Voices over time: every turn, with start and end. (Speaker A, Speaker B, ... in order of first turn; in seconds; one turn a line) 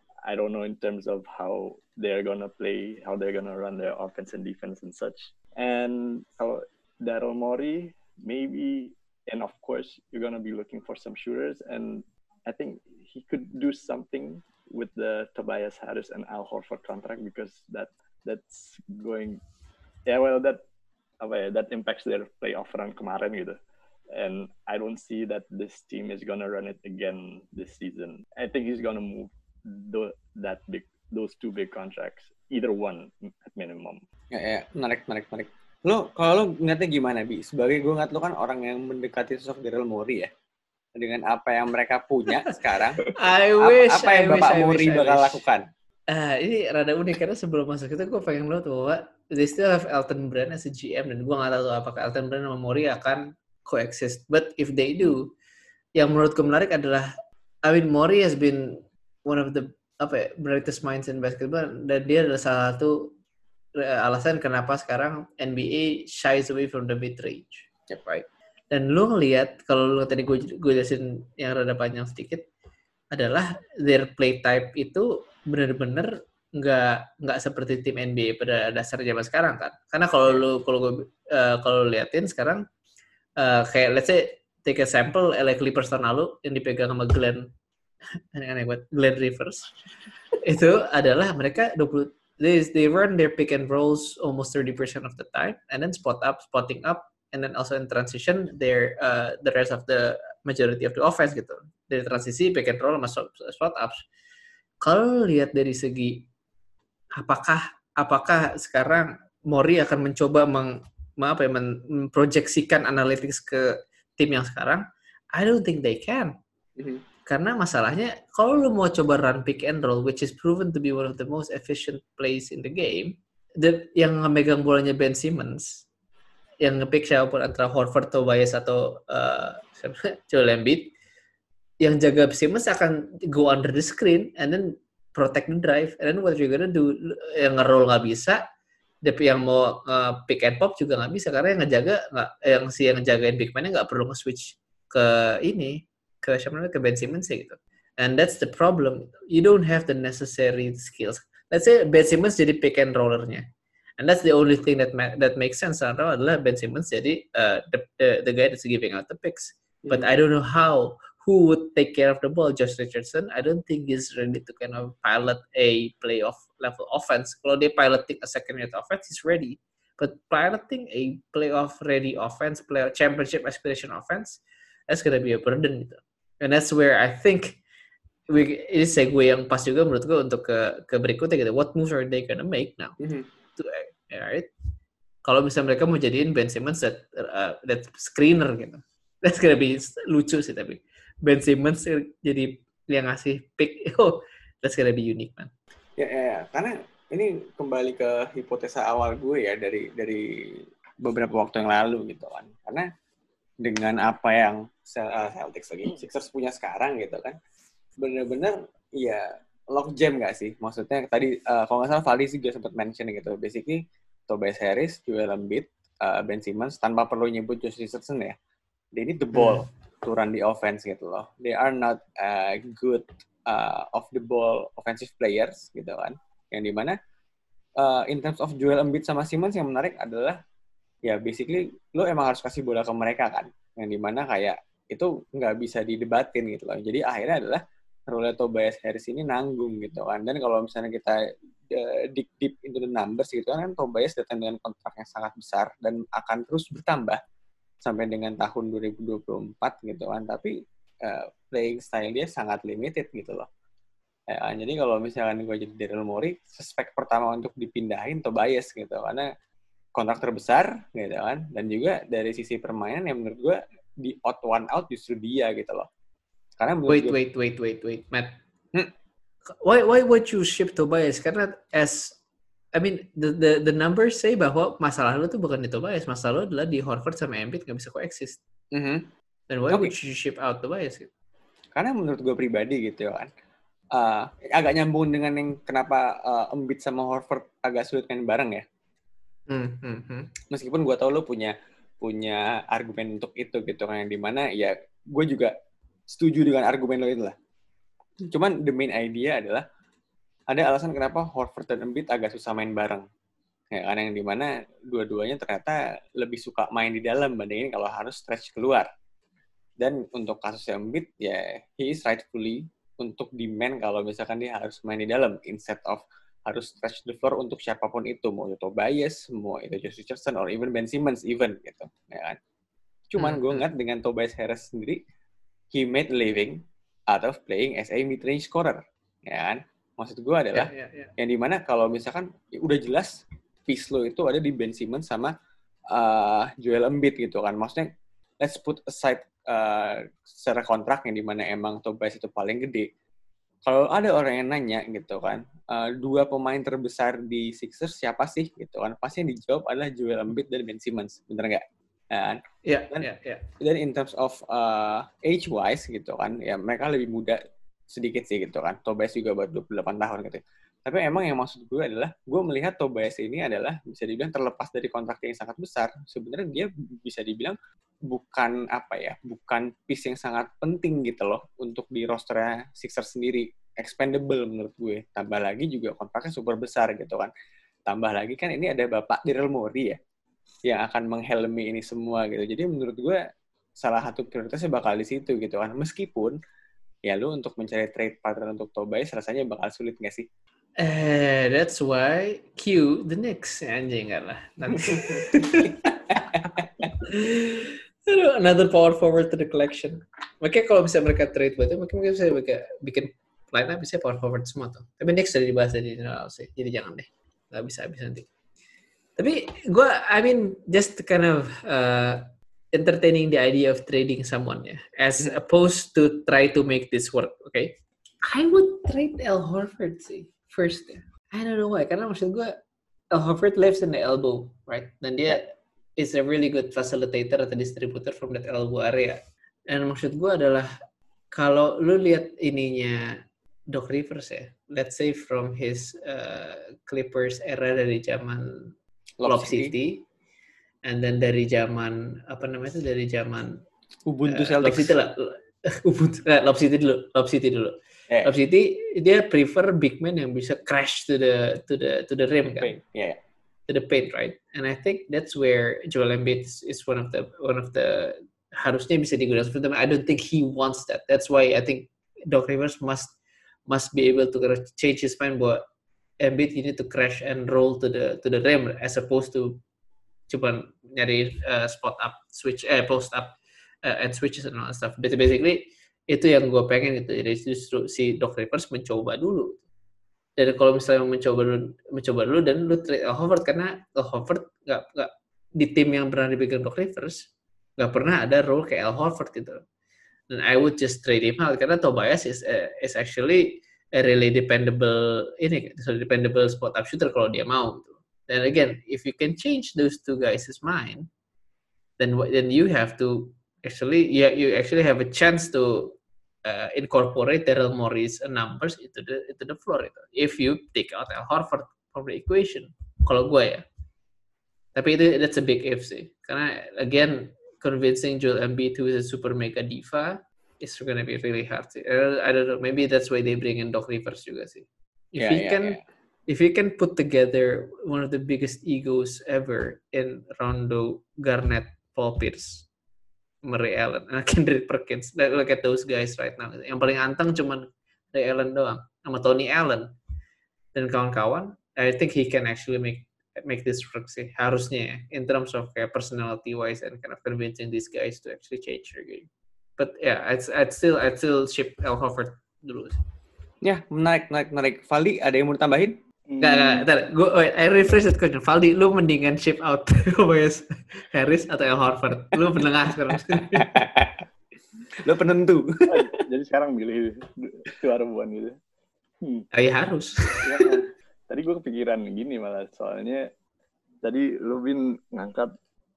Speaker A: 0.2-19.4
Speaker A: 20.1-20.6
Speaker A: 21.2-23.6
Speaker A: 24.1-34.0
Speaker B: 34.3-40.3
Speaker B: 41.0-45.6
Speaker C: 43.0-45.4
Speaker C: 46.1-55.3
Speaker C: 56.0-57.1
Speaker C: 57.6-63.1
Speaker C: 63.8-72.5
Speaker C: 73.1-82.7
Speaker C: 83.4-87.5
Speaker C: 88.3-89.7
Speaker C: 90.4-104.0
Speaker C: 104.8-106.3
Speaker C: 107.2-116.3
Speaker C: 117.2-125.8
Speaker C: 126.6-130.9
Speaker C: 131.8-138.4
Speaker C: 139.0-153.5
Speaker C: 154.0-177.6
Speaker B: 159.8-160.1
Speaker C: 178.3-183.0
Speaker B: 183.0-183.2
Speaker C: 183.6-184.5
Speaker C: 185.2-195.5
Speaker B: 196.0-202.8
Speaker B: 203.6-207.3
Speaker B: 208.0-218.3
Speaker B: 218.9-226.9
Speaker C: 219.3-219.6
Speaker B: 227.8-230.4
Speaker B: 231.0-241.2
Speaker B: 241.7-247.2
Speaker B: 247.8-253.5
Speaker B: 254.3-259.3
Speaker B: 259.9-265.9
Speaker B: 266.6-267.1
Speaker C: 266.9-268.4
Speaker C: 269.6-272.2
Speaker C: 272.7-278.4
Speaker B: 278.7-279.1
Speaker C: 279.5-281.1
Speaker B: 281.8-283.3
Speaker B: 283.9-288.6
Speaker C: 289.5-290.3
Speaker B: 290.5-295.5
Speaker B: 296.1-297.3
Speaker B: 298.3-299.6
Speaker B: 300.5-303.1
Speaker B: 303.7-308.9
Speaker B: 309.8-322.4
Speaker B: 323.1-325.0
Speaker C: 323.2-323.6
Speaker B: 325.7-335.3
Speaker C: 330.5-331.1
Speaker B: 335.9-337.9
Speaker B: 338.4-342.9
Speaker B: 343.6-353.1
Speaker C: 352.6-353.5
Speaker B: 353.6-357.4
Speaker B: 357.9-367.6
Speaker B: 368.1-377.3
Speaker B: 377.9-380.0
Speaker B: 380.7-383.2
Speaker B: 383.8-386.4
Speaker B: 387.0-390.2
Speaker C: 390.8-408.3
Speaker B: 394.8-395.2
Speaker B: 396.1-396.9
Speaker C: 409.2-417.7
Speaker C: 418.3-422.6
Speaker C: 423.1-430.7
Speaker C: 431.3-438.7
Speaker B: 439.2-439.7
Speaker C: 439.2-440.1
Speaker C: 440.8-443.6
Speaker B: 444.1-444.9
Speaker C: 444.3-452.7
Speaker B: 452.4-453.2
Speaker C: 453.7-463.1
Speaker C: 463.7-465.6
Speaker C: 466.2-469.6
Speaker C: 470.3-479.6
Speaker C: 480.4-487.2
Speaker C: 487.8-489.6
Speaker C: 490.3-501.1
Speaker C: 502.0-513.6
Speaker C: 514.7-532.7
Speaker B: 525.2-525.8
Speaker C: 533.4-539.9
Speaker C: 540.7-553.0
Speaker B: 553.6-556.0
Speaker A: 556.3-556.9
Speaker C: 556.4-563.7
Speaker B: 563.2-564.2
Speaker B: 565.0-566.1
Speaker A: 565.9-568.6
Speaker A: 569.2-569.5
Speaker C: 569.5-570.8
Speaker A: 570.4-573.3
Speaker A: 574.0-575.5